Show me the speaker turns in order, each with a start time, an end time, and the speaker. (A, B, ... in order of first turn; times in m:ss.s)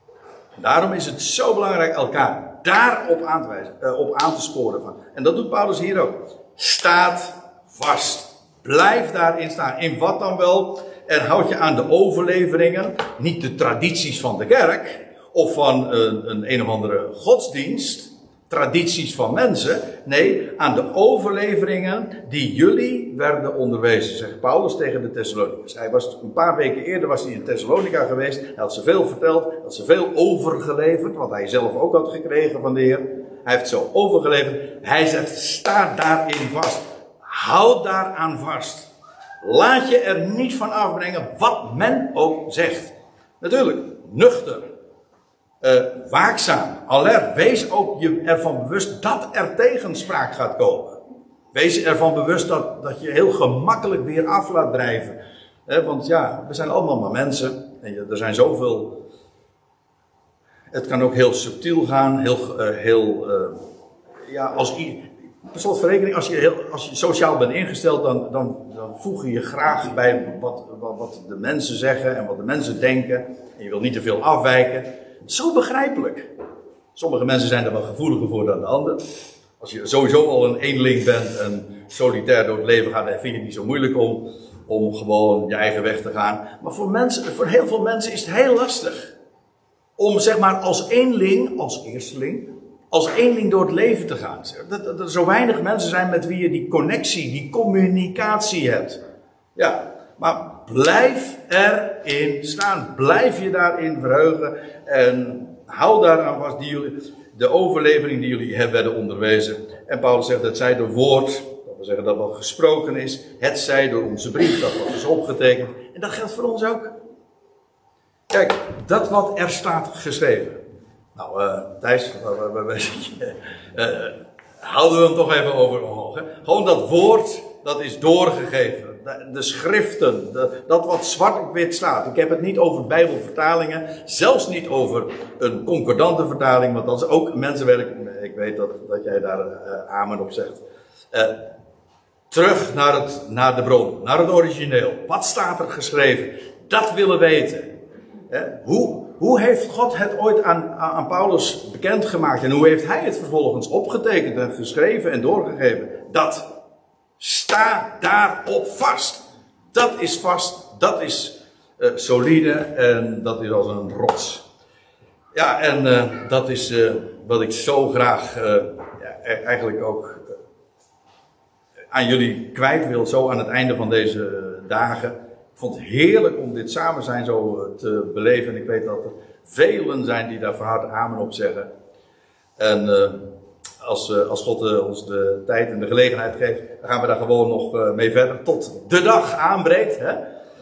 0:00.6-0:38.9 A
0:39.4-0:44.6 A
0:45.6-0:51.0 A
0:51.5-0:59.0 A
1:00.7-1:03.6 A
1:04.2-1:16.3 A
1:16.9-1:19.0 A
1:19.6-1:29.1 A
1:30.0-1:39.0 A
1:39.6-1:56.9 A
1:58.3-2:00.6 A
2:01.1-2:21.4 A
2:22.3-2:27.7 A
2:28.3-2:36.5 A
2:37.2-2:44.4 A
2:45.3-2:50.3 A
2:51.9-3:01.7 A
3:02.6-3:03.2 A
3:03.8-3:10.2 A